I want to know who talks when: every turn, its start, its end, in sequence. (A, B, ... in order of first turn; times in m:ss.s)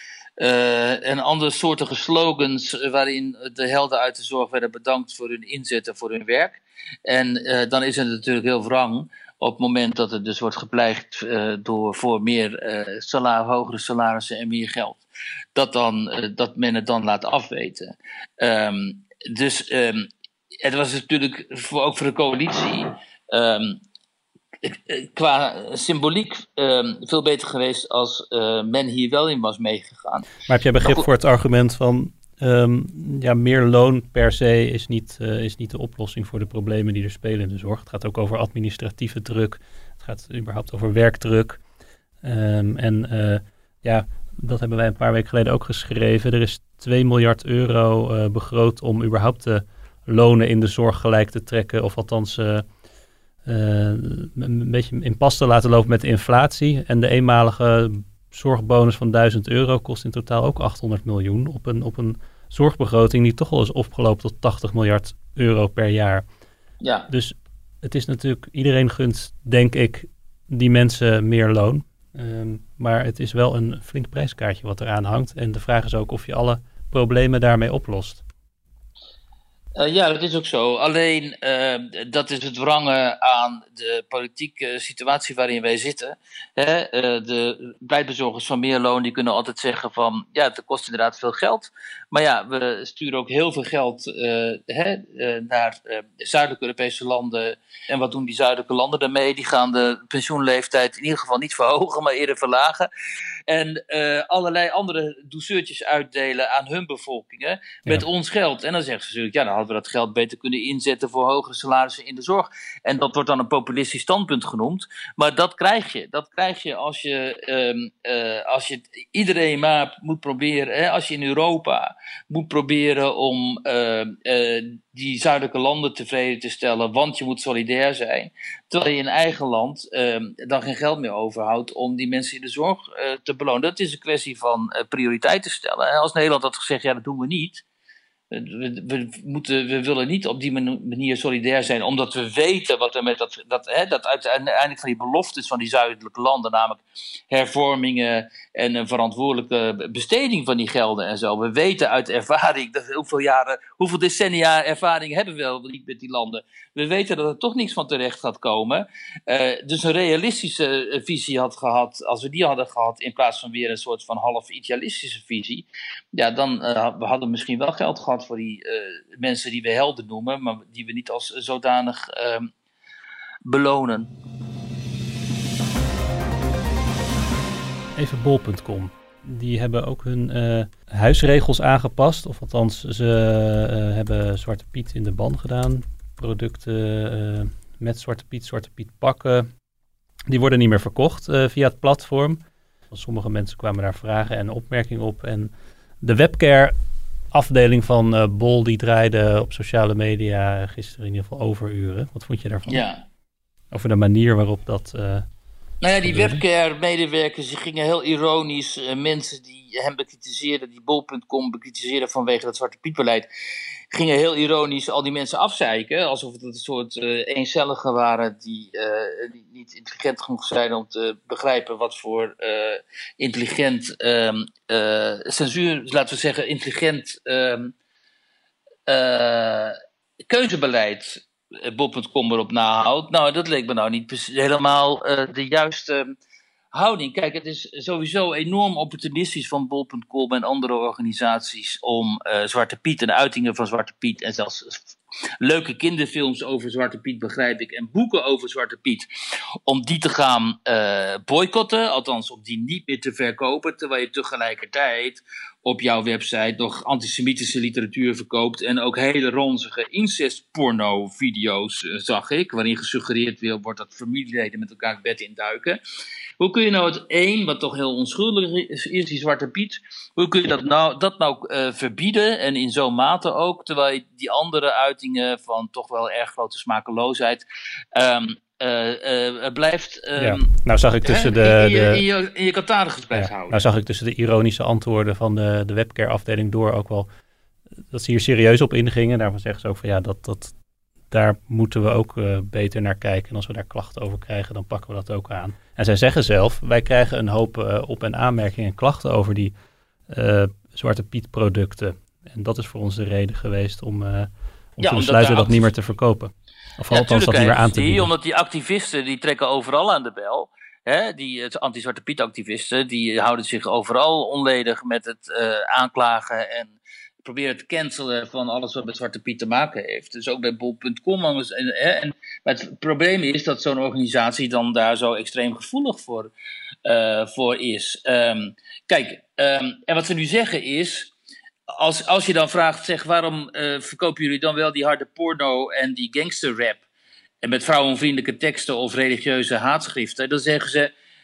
0:00.4-0:20.1 A
0:20.6-0:23.8 A
0:24.6-0:30.3 A
0:30.5-0:41.6 B
0:30.8-0:31.1 A
0:42.2-0:52.6 B
0:53.5-1:06.2 B
1:06.8-1:07.1 A
1:07.1-1:18.2 B
1:19.8-1:42.9 A
1:43.5-2:17.6 A
2:18.3-2:52.5 A
2:53.4-2:54.1 A
2:58.0-3:09.5 B
3:10.3-3:16.8 B
3:17.3-3:22.8 B
3:22.7-3:23.0 A
3:23.7-3:25.3 B
3:25.8-3:33.3 A
3:26.0-3:26.4 B
3:33.9-3:47.7 A
3:48.9-3:56.2 A
3:56.7-4:09.1 A
4:09.6-4:25.8 A
4:26.4-4:40.5 A
4:40.2-4:42.0 B
4:41.0-4:43.6 A
4:43.1-4:47.1 B
4:47.9-4:50.5 B
4:51.1-4:59.6 B
5:00.1-5:08.1 B
5:04.8-5:05.7 A
5:06.9-5:26.3 A
5:26.8-5:31.1 A
5:31.7-5:36.8 A
5:37.4-5:40.9 A